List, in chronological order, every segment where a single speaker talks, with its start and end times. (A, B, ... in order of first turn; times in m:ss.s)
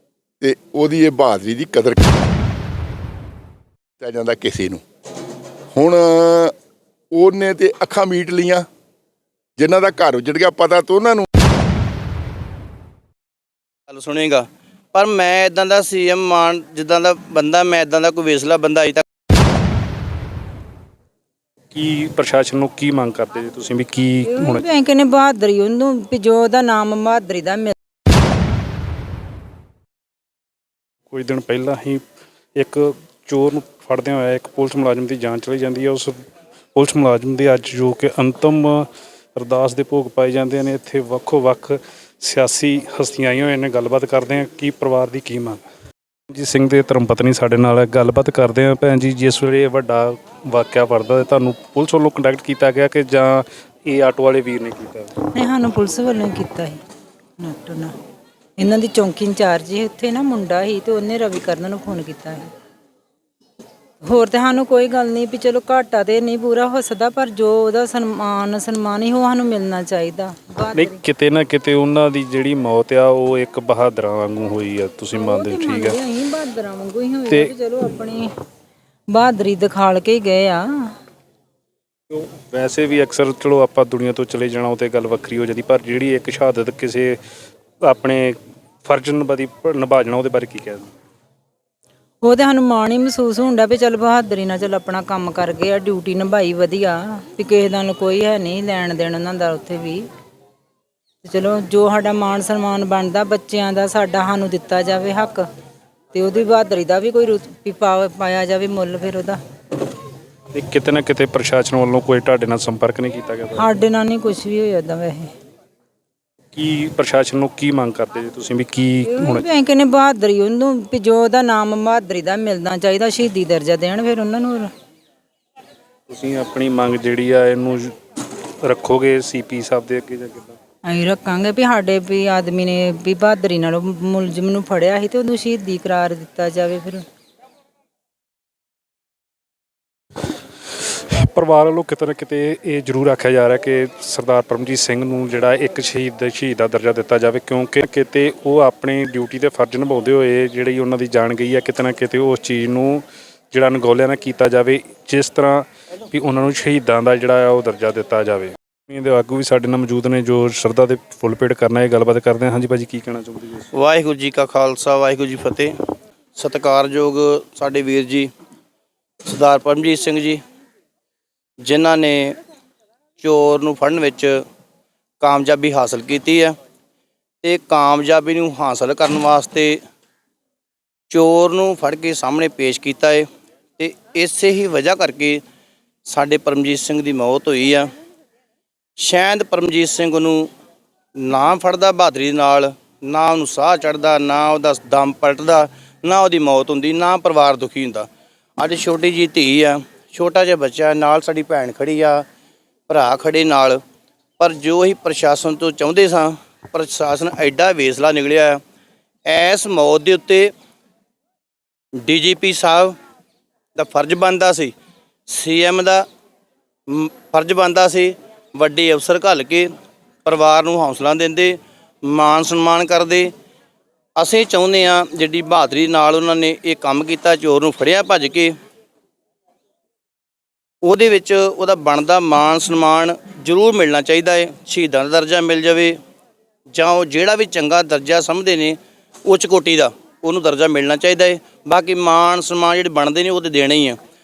0:00.4-0:02.1 A
0:04.0-0:04.8 A
0:05.8-0:06.5 A
0:07.1-0:08.7 A
0:09.6-0:11.3 A
0:13.9-0:19.0 B
0:21.7-0:24.6 C
0:24.2-0:27.7 D
0:31.1-0:32.0 C
0:32.6-0:36.2 C
0:36.8-0:45.6 C
0:46.3-0:55.3 C
0:55.3-0:56.8 D
0:57.4-0:57.9 D
0:58.6-1:02.5 D
1:04.0-1:11.0 D
1:10.7-1:16.0 C
1:15.1-1:18.3 D
1:17.3-1:17.5 C
1:19.1-1:20.9 D
1:22.1-1:27.2 C
1:27.8-1:30.9 C
1:32.2-1:40.0 D
1:41.2-1:45.4 D
1:46.1-1:49.4 D
1:50.5-1:53.7 C
1:53.6-1:55.3 D
1:56.5-1:59.4 C
1:59.0-2:04.7 D
2:06.1-2:07.9 C
2:08.6-2:10.6 C
2:10.9-2:17.0 D
2:20.9-2:43.7 C
2:43.7-2:45.8 B
2:46.4-2:48.3 B
2:49.2-2:50.4 B
2:51.6-2:52.4 B
2:53.2-2:54.4 B
2:55.2-2:56.6 B
2:57.4-2:59.8 B
3:01.1-3:05.4 B
3:06.1-3:07.9 B
3:09.0-3:10.5 B
3:11.2-3:22.3 B
3:22.9-3:23.8 B
3:24.4-3:28.6 B
3:29.3-3:30.5 B
3:32.0-3:33.0 B
3:33.8-3:34.7 B
3:35.3-3:36.1 B
3:36.9-3:39.7 B
3:40.2-3:43.3 B
3:44.2-3:48.6 B
3:50.8-3:56.0 B
3:56.7-4:04.0 B